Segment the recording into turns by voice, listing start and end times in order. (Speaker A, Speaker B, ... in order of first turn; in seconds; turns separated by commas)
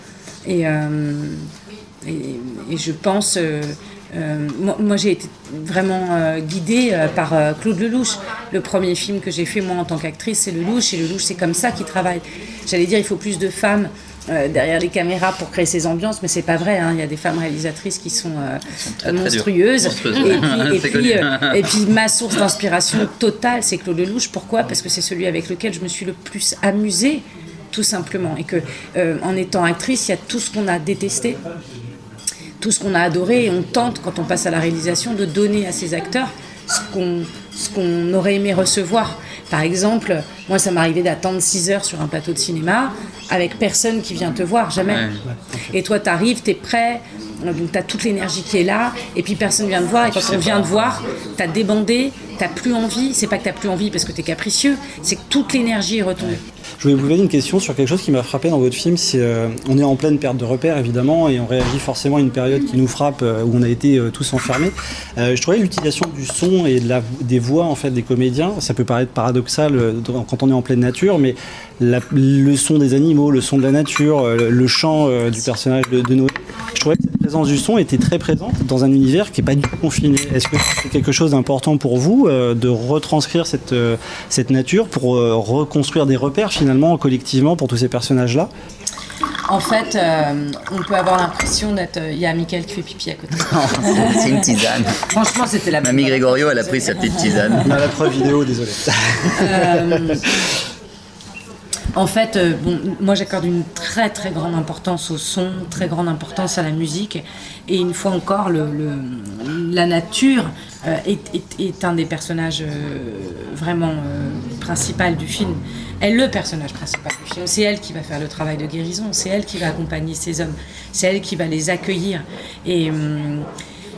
Speaker A: 0.4-1.4, Speaker A: 2.0-31.4, Speaker B: 18.8-21.6, Speaker A: 32.6-45.0, Speaker B: 44.8-45.2, Speaker C: 45.3-45.7, Speaker A: 45.7-56.4, Speaker B: 50.0-50.7, Speaker C: 56.8-88.5, Speaker A: 89.5-94.4, Speaker B: 93.4-95.0, Speaker A: 95.1-97.6, Speaker B: 95.8-97.8, Speaker C: 97.7-99.7, Speaker A: 99.4-100.2, Speaker A: 101.9-123.5